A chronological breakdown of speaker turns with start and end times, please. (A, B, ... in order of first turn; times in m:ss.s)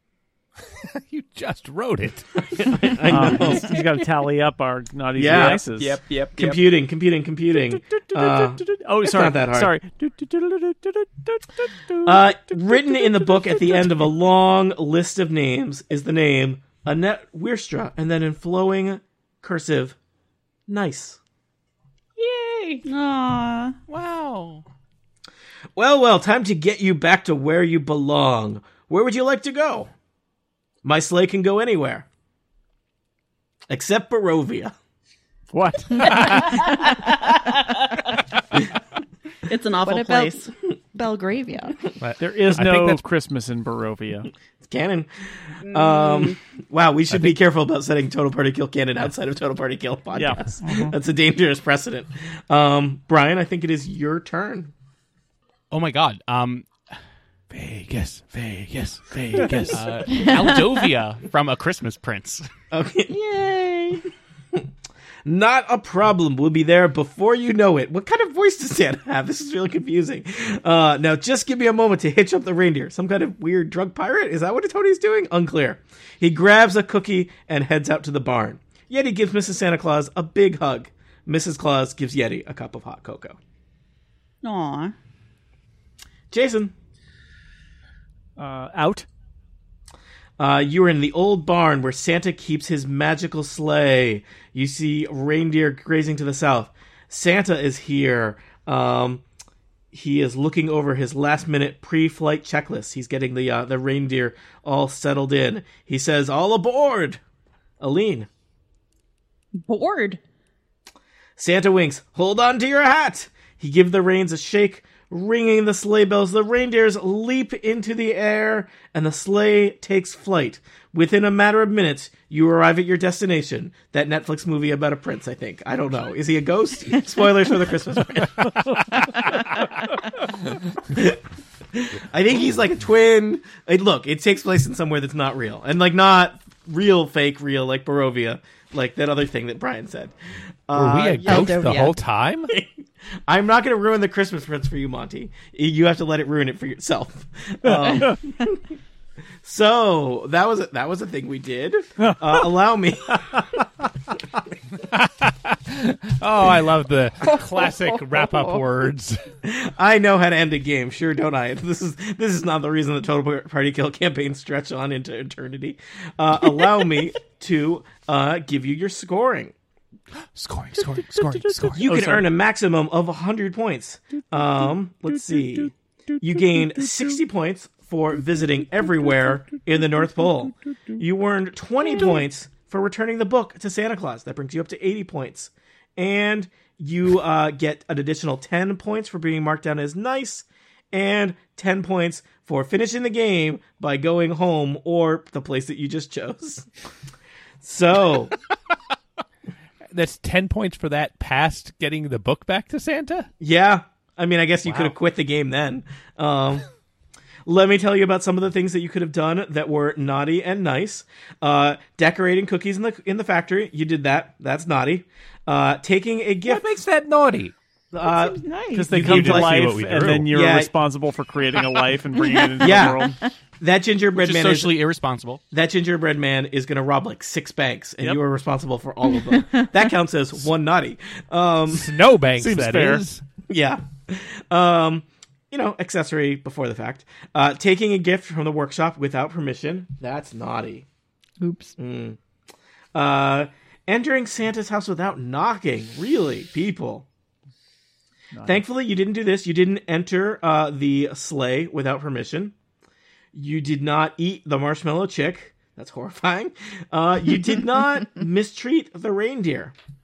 0:00.8-0:02.4 A
0:02.5-0:03.8 B
0:03.1-0:06.0 C
0:05.2-0:05.6 B
0:05.2-0:06.6 D
0:06.3-0:09.8 B
0:07.9-0:14.0 C
0:12.0-0:20.0 B
0:20.7-0:21.2 B
0:22.2-0:23.8 E
0:23.9-0:24.6 F
0:25.8-0:29.9 B
0:30.8-0:32.0 B
0:33.7-0:34.7 B
0:35.5-0:36.6 C
0:36.0-0:38.0 E
0:39.5-0:40.5 E
0:39.8-0:41.8 G
0:42.0-0:43.0 A
0:42.2-0:44.3 C
0:44.6-0:45.1 B
0:45.6-0:54.7 B
0:45.7-0:46.4 E
0:50.1-0:50.9 C
0:55.7-0:57.0 F
0:57.5-0:59.6 A
0:59.3-0:59.8 C
0:59.4-0:59.7 B
0:59.7-1:02.5 F
1:02.7-1:04.7 B
1:05.2-1:23.4 B
1:24.4-1:24.9 E
1:26.3-1:26.7 B
1:28.4-1:29.1 C
1:30.4-1:39.2 B
1:39.9-1:47.2 B
1:47.8-1:48.3 B
1:49.6-1:50.2 E
1:51.4-2:09.5 B
2:10.9-2:11.2 B
2:11.7-2:20.1 B
2:20.7-2:21.7 B
2:20.7-2:22.5 A
2:21.2-2:22.0 G
2:23.3-2:28.7 B
2:29.4-2:33.6 B
2:34.8-2:39.2 A
2:39.4-2:49.5 B
2:50.9-2:52.3 C
2:51.8-3:16.7 B
3:17.6-3:18.3 B
3:19.9-3:23.3 A
3:23.4-3:26.7 B
3:24.6-3:24.9 A
3:27.4-3:36.7 B
3:36.4-3:37.5 D
3:37.9-3:38.4 B
3:38.0-3:39.1 G
3:38.7-3:43.2 C
3:38.9-3:40.3 A
3:38.9-3:40.7 B
3:42.3-3:42.9 G
3:42.6-3:44.7 B
3:44.2-3:45.4 F
3:45.5-3:51.9 B
3:51.7-3:53.2 A
3:52.3-3:53.0 C
3:53.5-4:00.9 B
4:01.4-4:01.7 G
4:01.8-4:02.2 B
4:02.9-4:07.0 B
4:08.3-4:08.6 C
4:08.4-4:12.5 B
4:13.3-4:19.7 B